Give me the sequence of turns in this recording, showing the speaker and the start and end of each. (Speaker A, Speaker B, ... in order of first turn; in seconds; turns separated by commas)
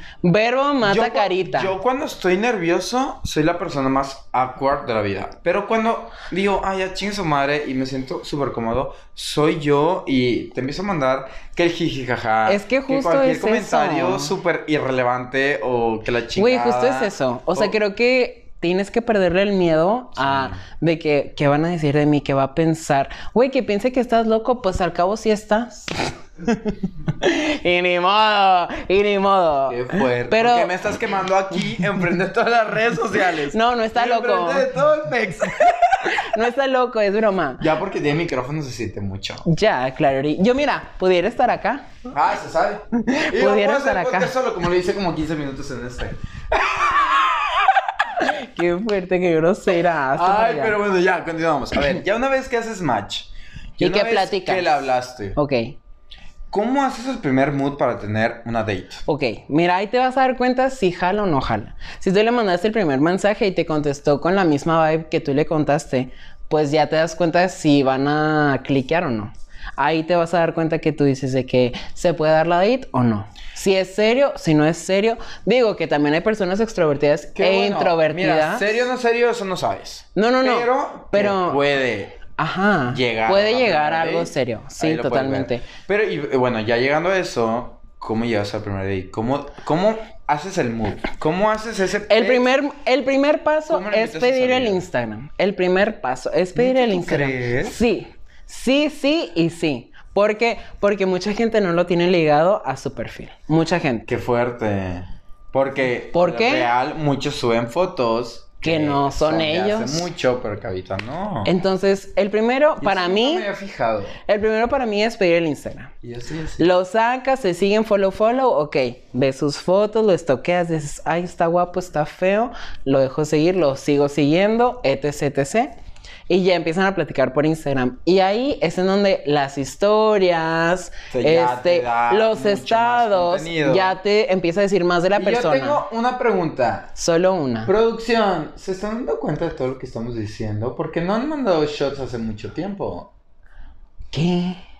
Speaker A: 0.2-1.7, Speaker B: 0.8-17.7, Speaker A: 12.4-14.3, Speaker A: 16.3-30.7, Speaker B: 20.1-20.6, Speaker B: 29.7-36.2, Speaker A: 33.5-34.7, Speaker A: 36.1-37.7, Speaker B: 37.6-39.5, Speaker A: 39.5-42.0, Speaker B: 42.1-48.1, Speaker A: 43.0-44.3, Speaker A: 48.2-50.8, Speaker B: 50.1-55.4, Speaker A: 53.8-55.8, Speaker B: 56.5-59.0, Speaker A: 59.0-78.8, Speaker B: 77.3-82.2, Speaker A: 80.1-81.6, Speaker A: 82.4-85.7, Speaker B: 82.9-92.5, Speaker A: 92.1-104.1, Speaker B: 93.7-94.8, Speaker B: 96.5-97.8, Speaker B: 104.0-111.5, Speaker A: 106.1-106.7, Speaker A: 108.6-110.1, Speaker A: 111.4-113.5, Speaker B: 112.8-114.2, Speaker A: 114.2-115.9, Speaker B: 116.0-116.8, Speaker A: 116.6-125.7, Speaker A: 126.3-135.8, Speaker B: 131.1-134.0, Speaker B: 135.1-136.9, Speaker A: 136.9-137.7, Speaker B: 137.7-143.1, Speaker A: 144.1-144.6